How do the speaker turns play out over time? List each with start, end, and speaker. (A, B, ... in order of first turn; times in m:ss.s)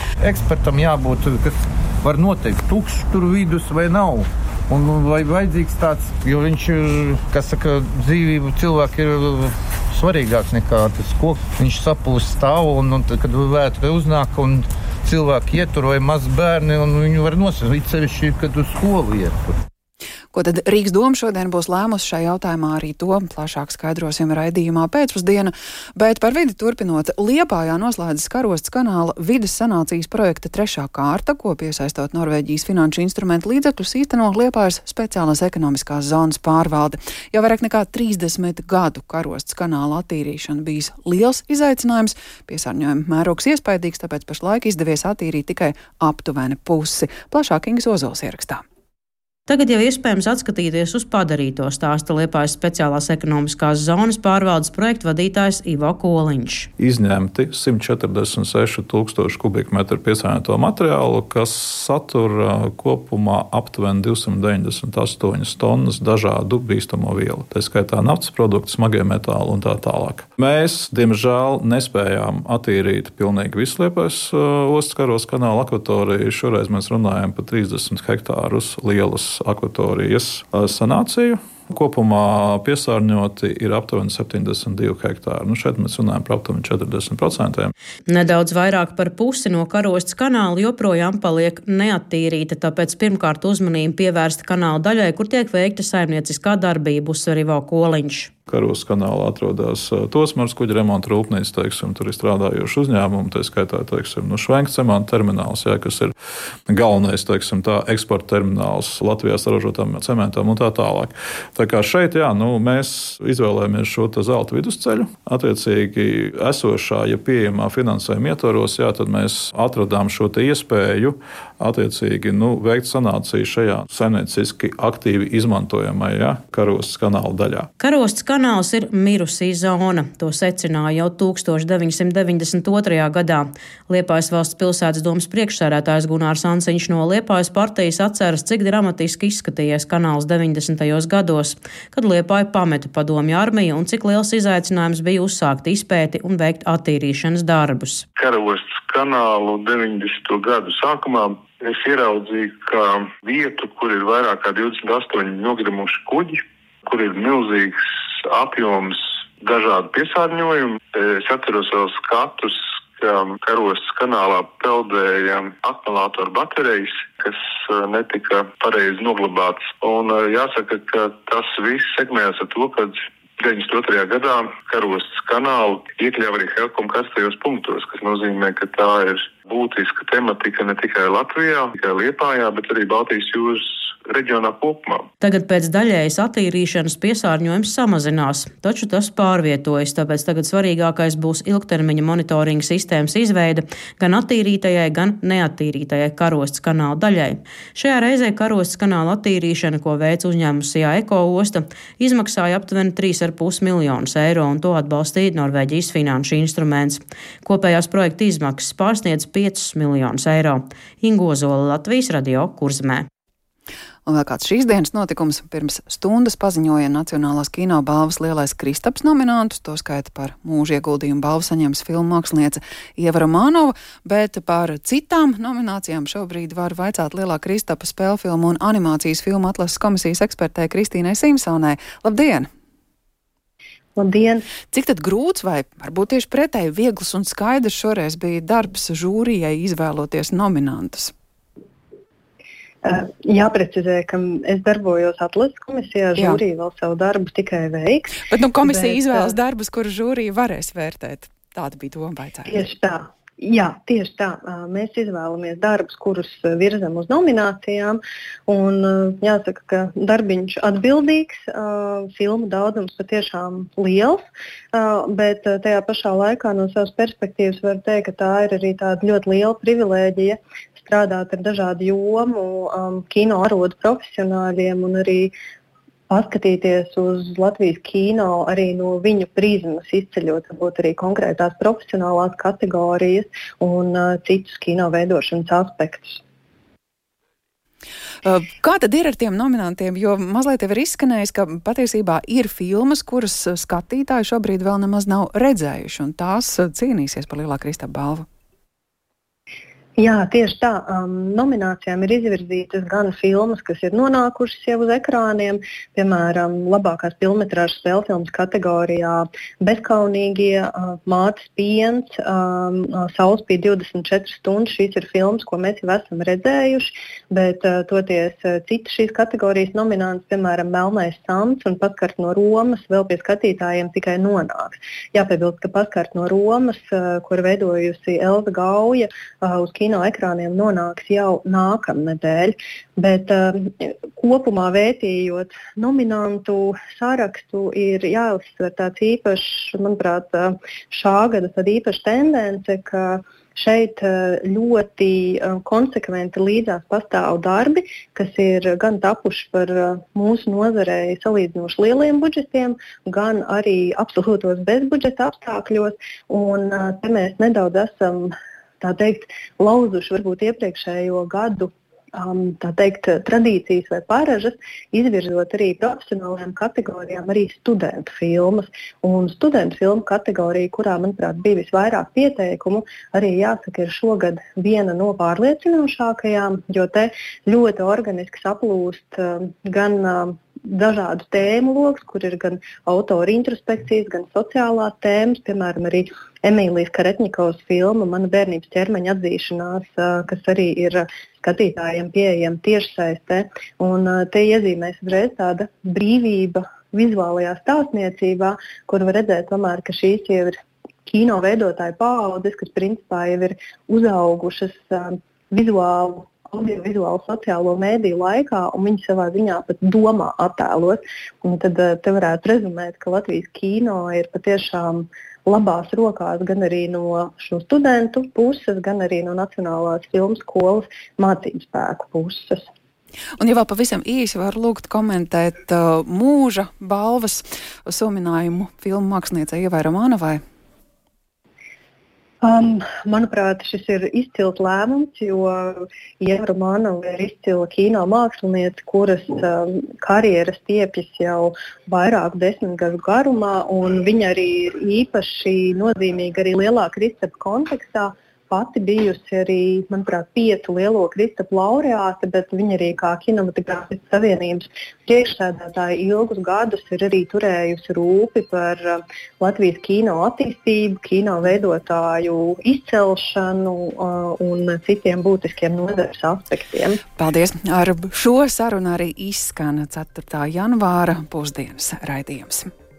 0:00.2-0:19.6 A
0:20.3-0:48.6 B
0:49.5-0:56.7 C
0:56.8-1:27.7 D
1:28.1-1:38.3 C
1:38.5-1:46.1 D
1:46.7-2:07.7 D
2:07.8-2:28.1 C
2:28.1-3:05.1 E
3:05.2-3:33.1 C
3:34.0-3:52.5 B
3:54.0-3:54.5 F
3:54.6-4:01.1 B
4:02.8-4:09.3 F
4:08.3-4:12.5 B
4:12.4-4:35.3 F
4:36.1-4:46.2 F
4:48.2-4:58.2 B
5:00.0-7:02.7 F
7:03.4-7:10.4 B
7:12.4-7:47.0 F
7:47.2-7:52.7 B